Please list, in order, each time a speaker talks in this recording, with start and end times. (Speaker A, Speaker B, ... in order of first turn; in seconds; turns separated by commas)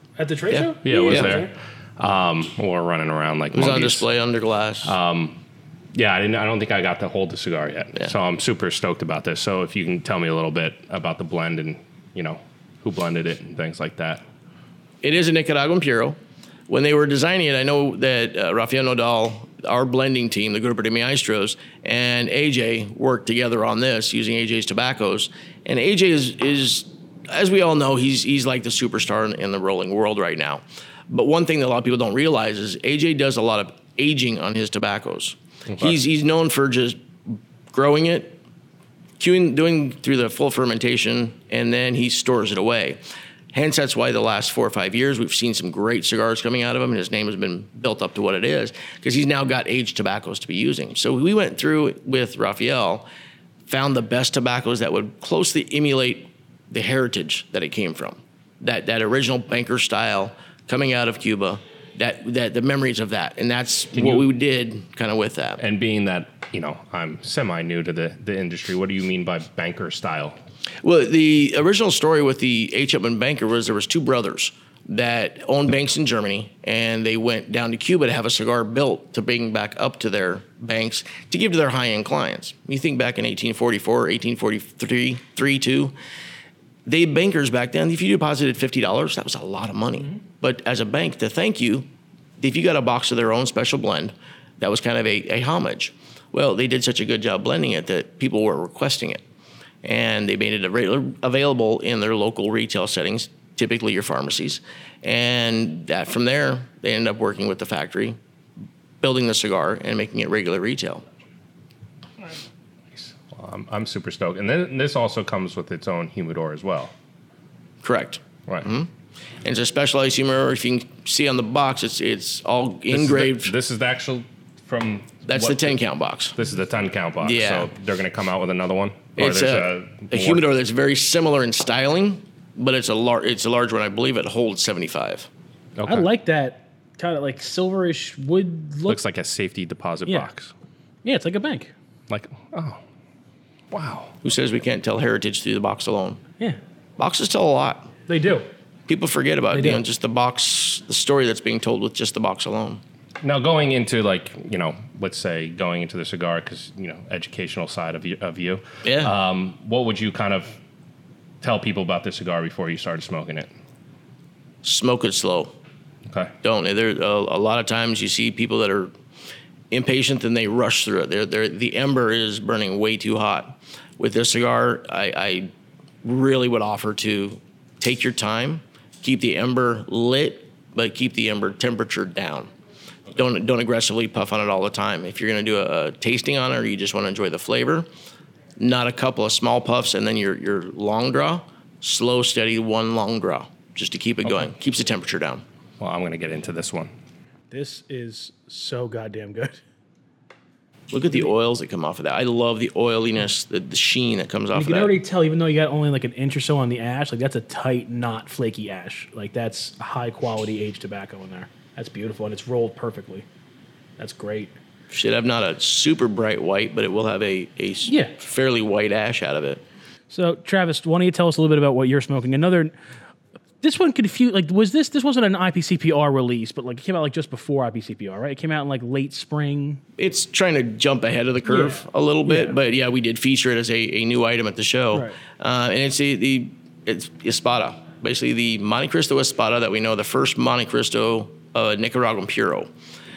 Speaker A: 0.2-1.5, Speaker B: 0.5-1.4, Speaker C: 0.8-4.1, Speaker B: 3.5-4.9, Speaker C: 4.8-5.4, Speaker C: 5.9-14.2, Speaker B: 15.0-16.2, Speaker B: 16.7-38.4, Speaker B: 39.2-43.0, Speaker B: 43.5-53.0, Speaker B: 53.7-65.6, Speaker C: 64.0-64.3, Speaker C: 65.6-70.3, Speaker B: 70.8-85.9, Speaker B: 86.9-91.9, Speaker B: 92.4-99.2, Speaker B: 99.8-108.2, Speaker B: 109.0-111.0, Speaker C: 112.9-116.9, Speaker B: 117.8-118.9, Speaker B: 119.4-123.5, Speaker C: 122.9-125.8, Speaker B: 125.3-126.4, Speaker C: 126.3-130.4, Speaker B: 127.2-127.7, Speaker B: 129.2-135.3, Speaker C: 135.8-136.1, Speaker A: 135.9-139.0, Speaker C: 138.9-140.5, Speaker A: 141.1-141.7, Speaker C: 142.1-142.8, Speaker C: 143.7-144.2, Speaker B: 144.2-146.2, Speaker B: 147.0-147.9, Speaker A: 148.1-148.5, Speaker B: 148.9-152.8, Speaker A: 149.5-149.8, Speaker C: 153.2-160.6, Speaker B: 158.8-159.1, Speaker C: 161.4-163.5, Speaker B: 164.6-165.5, Speaker B: 166.4-168.9, Speaker B: 169.7-175.5, Speaker B: 176.0-182.5, Speaker B: 183.1-187.9, Speaker B: 188.6-195.4, Speaker C: 195.8-196.9, Speaker A: 197.5-199.6, Speaker B: 200.9-204.9, Speaker A: 204.5-213.3, Speaker A: 214.0-214.5, Speaker B: 214.9-219.6, Speaker A: 217.9-218.1, Speaker A: 220.1-222.7, Speaker A: 223.6-229.8, Speaker B: 230.0-242.7, Speaker A: 231.5-232.6